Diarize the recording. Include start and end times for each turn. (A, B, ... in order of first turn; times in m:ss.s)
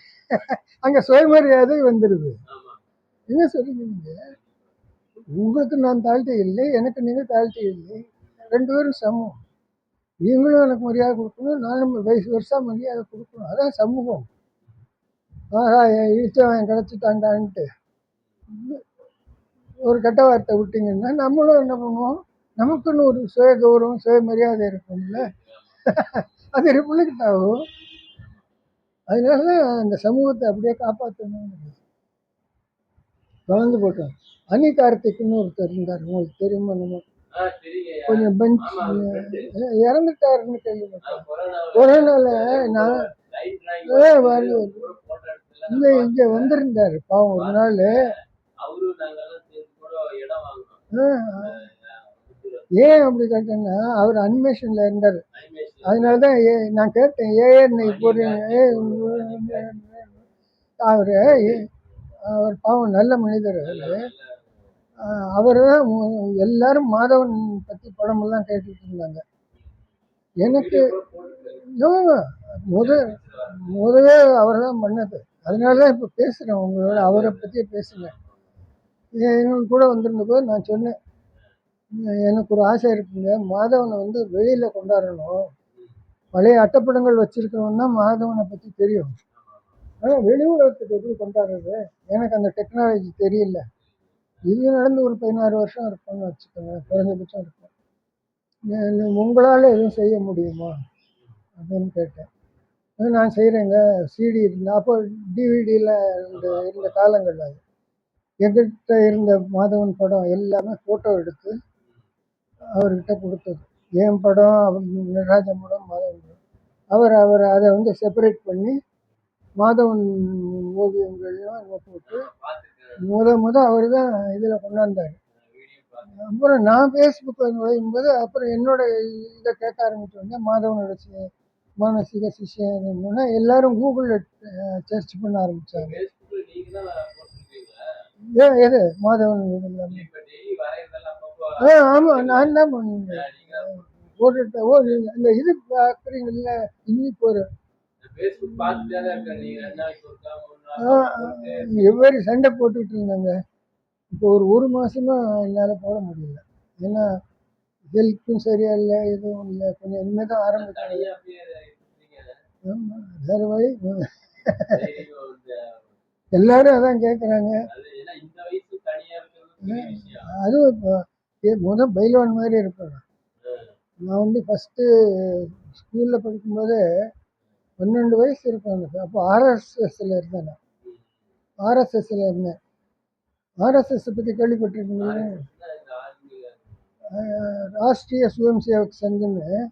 0:00.3-0:02.4 A
0:02.5-0:02.8 B
0:03.3-0:04.3 A
0:04.3-0:05.2 B
0:05.3-0:09.4 A
0:10.2-0:14.3 A
0:15.5-0:17.7 A
0:18.5-0:18.8 A
0:19.8-0:25.3 A
0:25.2-0:25.8 B
0:25.9-0:27.6 A
0:28.1-0:28.5 B
0:29.1-0:31.8 A
0:33.5-0:37.0 A
0:37.3-0:39.5 B
0:38.1-0:43.0 A
0:41.0-0:46.6 B
0:43.9-0:44.8 A
0:45.7-0:48.1 A
0:47.3-0:53.1 B
0:50.9-0:51.6 A
0:52.8-0:55.2 A
0:55.3-0:56.3 B
0:55.8-1:00.2 A
0:57.8-0:59.7 B
1:00.8-1:01.6 A
1:01.2-1:01.8 B
1:02.3-1:04.1 A
1:03.6-1:04.5 B
1:05.0-1:09.2 A
1:09.6-1:09.8 B
1:10.4-1:11.6 B
1:10.4-1:10.9 A
1:11.7-1:18.1 A
1:12.7-1:14.0 B
1:15.5-1:15.9 B
1:16.9-1:18.4 B
1:19.2-1:21.0 A
1:22.2-1:25.4 A
1:25.8-1:26.0 B
1:26.3-1:29.2 A
1:29.3-1:29.8 B
1:30.0-1:33.7 A
1:33.8-1:34.4 B
1:34.4-1:37.7 A
1:36.9-1:37.2 B
1:38.7-1:40.8 A
1:41.6-1:42.3 A
1:43.0-1:47.6 A
1:46.3-1:47.0 B
1:48.4-1:51.5 A
1:52.8-1:56.4 A
1:56.9-1:58.8 A
1:59.6-2:02.3 A
2:02.1-2:03.1 B
2:03.0-2:05.2 A
2:05.4-2:06.1 B
2:06.2-2:11.3 A
2:11.8-2:16.0 A
2:15.8-2:17.8 B
2:18.3-2:20.0 A
2:19.9-2:23.9 B
2:21.6-2:27.4 A
2:24.7-2:25.0 B
2:28.0-2:32.0 B
2:28.6-2:29.7 A
2:30.8-2:33.4 A
2:34.1-2:37.1 A
2:37.9-2:41.1 A
2:40.6-2:42.4 B
2:42.7-2:44.8 A
2:44.7-2:45.9 B
2:46.3-2:47.6 A
2:47.7-2:50.3 B
2:49.6-2:53.0 A
2:53.4-2:53.8 B
2:54.0-2:56.8 A
2:57.8-3:00.6 A
3:00.8-3:01.1 B
3:01.6-3:02.6 A
3:03.6-3:05.4 A
3:05.0-3:06.8 B
3:07.1-3:09.5 A